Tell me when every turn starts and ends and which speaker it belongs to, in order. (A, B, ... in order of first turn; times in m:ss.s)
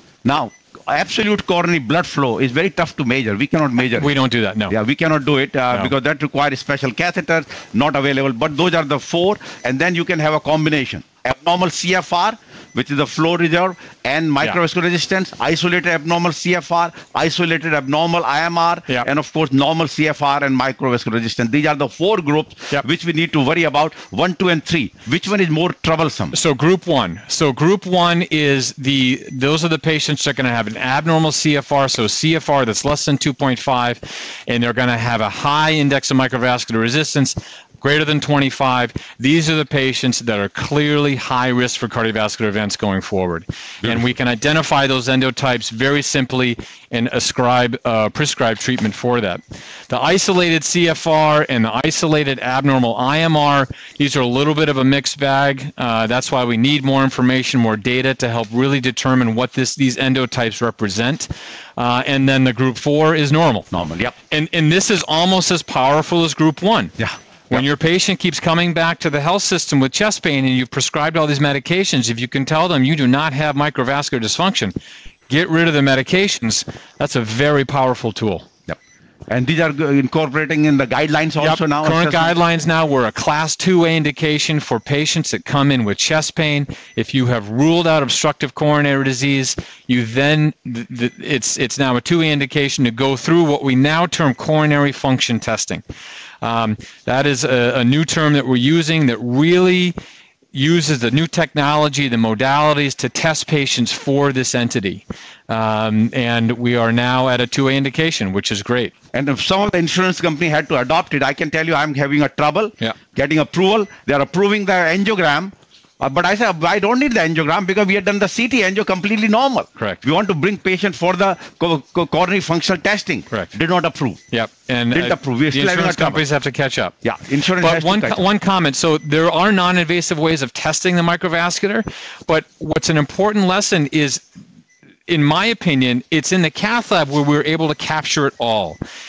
0:00.2-0:04.1 A
0:04.0-0:04.7 B
0:04.7-0:26.4 A
0:26.3-1:03.7 B
1:03.7-1:04.1 A
1:04.3-1:06.9 B
1:07.0-1:07.6 A
1:07.5-1:14.7 B
1:15.3-1:18.5 B
1:18.7-1:22.3 A
1:21.4-1:35.8 B
1:36.4-1:39.9 B
1:40.5-1:48.9 B
1:49.1-2:04.2 A
1:59.8-2:00.0 B
2:04.3-2:06.9 B
2:04.9-2:06.2 A
2:07.0-2:08.2 A
2:07.6-2:14.2 B
2:15.1-2:18.8 B